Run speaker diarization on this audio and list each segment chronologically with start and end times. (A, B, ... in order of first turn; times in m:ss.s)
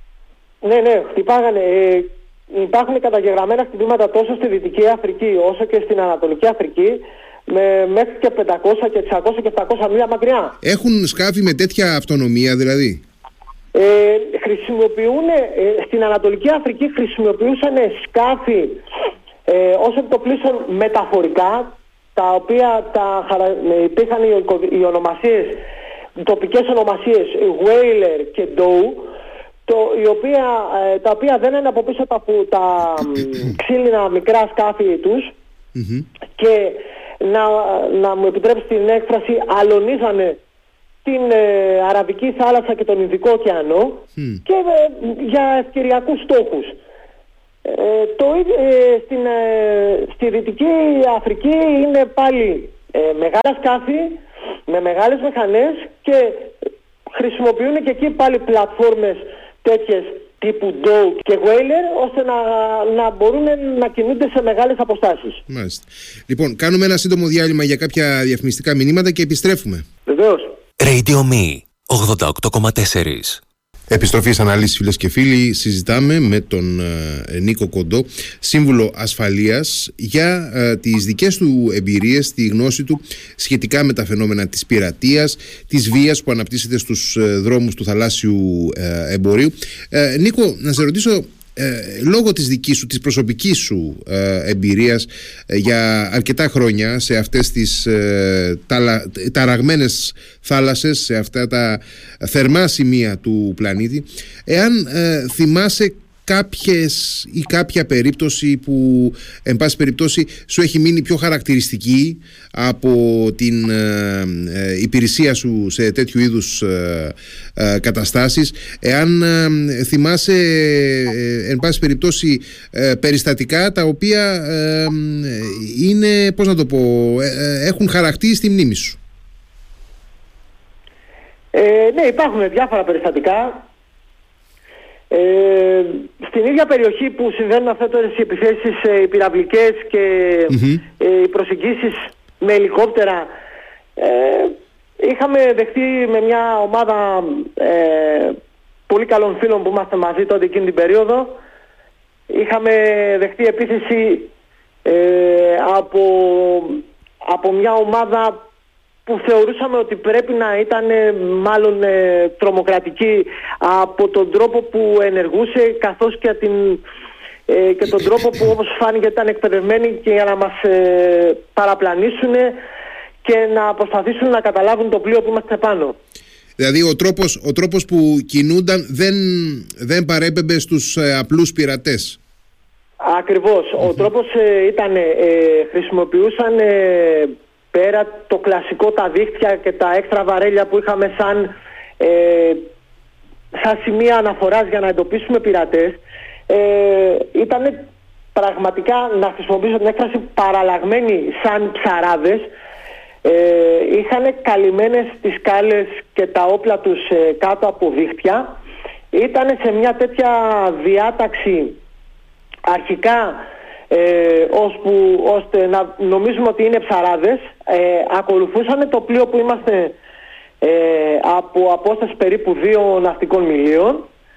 0:00.6-0:10.6 A
0:10.6-0:13.0 B
0:13.7-0:18.8 A
0:19.4-0:25.6 A
0:26.2-0:29.1 A
0:29.6-0:35.3 A
0:35.7-0:36.0 B
0:36.4-0:40.4 A
0:41.0-0:46.8 A
0:44.2-0:44.4 B
0:47.6-0:56.6 A
0:57.1-1:05.4 A
1:05.5-1:09.8 B
1:10.0-1:10.6 A
1:10.8-1:13.4 C
1:13.9-2:09.0 B
2:11.5-2:13.6 A
2:15.1-2:23.3 A
2:20.5-2:20.8 B
2:24.0-2:28.4 A
2:28.9-2:31.4 A
2:32.3-2:34.3 A
2:34.8-2:38.4 A
2:39.0-2:46.8 A
2:47.5-2:52.6 A
2:53.2-2:56.0 A
2:56.6-3:02.2 B
3:03.0-3:12.6 A
3:13.5-3:17.8 A
3:18.3-3:22.5 A
3:23.2-3:28.5 A
3:29.1-3:31.8 A
3:32.6-3:39.9 A
3:40.6-3:44.1 A